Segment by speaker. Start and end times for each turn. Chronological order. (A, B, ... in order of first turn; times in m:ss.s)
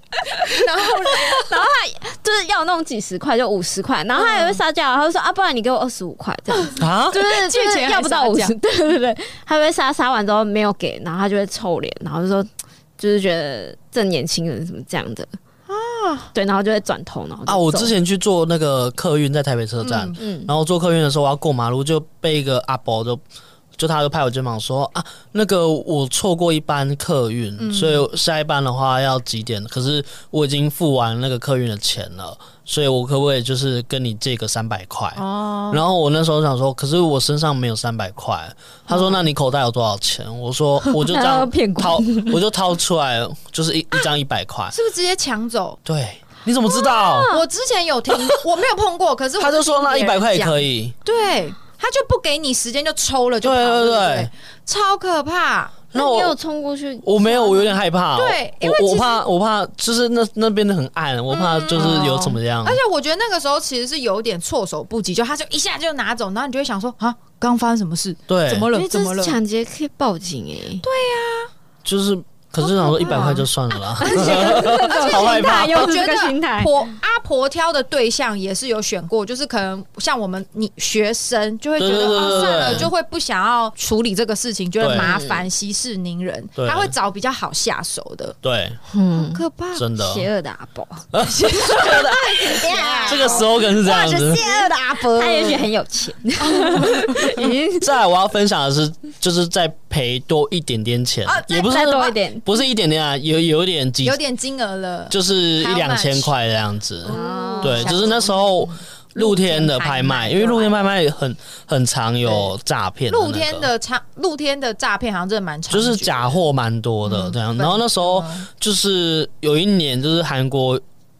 0:00.3-0:01.5 A
0:01.1-0:12.5 B
0:04.1-0:04.6 A
0:06.5-0:08.5 A
0:06.8-0:07.2 C
0:13.0-0:15.3 B
0:15.7-0:16.3 A
0:16.3-0:17.9 B
0:17.5-0:23.2 C
0:19.8-0:20.2 A
0:20.2-0:20.5 B
0:23.8-0:44.7 C
0:27.6-0:28.0 A
0:35.2-0:35.8 A
0:41.0-0:42.4 B
0:44.7-0:45.8 A
0:45.8-0:47.3 C
0:46.7-0:47.4 B
0:47.3-0:55.8 A
0:49.4-0:50.9 C
0:53.4-0:54.3 C
0:55.9-0:56.4 C
0:55.9-0:57.8 B
0:57.0-1:02.8 C
0:58.2-0:59.2 A
1:01.3-1:09.4 A
1:01.7-1:02.3 B
1:08.3-1:08.7 C
1:08.7-1:10.8 B
1:10.8-1:11.5 A
1:11.8-1:15.9 C
1:12.6-1:13.4 A
1:13.0-1:13.4 B
1:14.0-1:16.9 B
1:14.0-1:28.4 A
1:21.8-1:22.9 C
1:22.0-1:22.9 B
1:24.8-1:25.1 C
1:24.9-1:25.5 B
1:26.6-1:26.9 C
1:28.4-1:28.8 C
1:28.9-1:29.4 B
1:29.1-1:29.8 A
1:29.7-1:30.3 C
1:30.0-1:37.9 B
1:31.1-1:32.3 C
1:31.2-1:35.6 A
1:33.1-1:34.4 C
1:36.4-1:37.5 A
1:37.8-1:44.2 C
1:41.2-1:42.1 A
1:41.6-1:42.4 B
1:44.0-1:46.3 A
1:45.1-1:53.7 C
1:47.0-1:50.9 A
1:47.1-1:48.2 B
1:53.1-1:56.3 A
1:55.7-2:00.8 C
1:57.0-1:58.5 A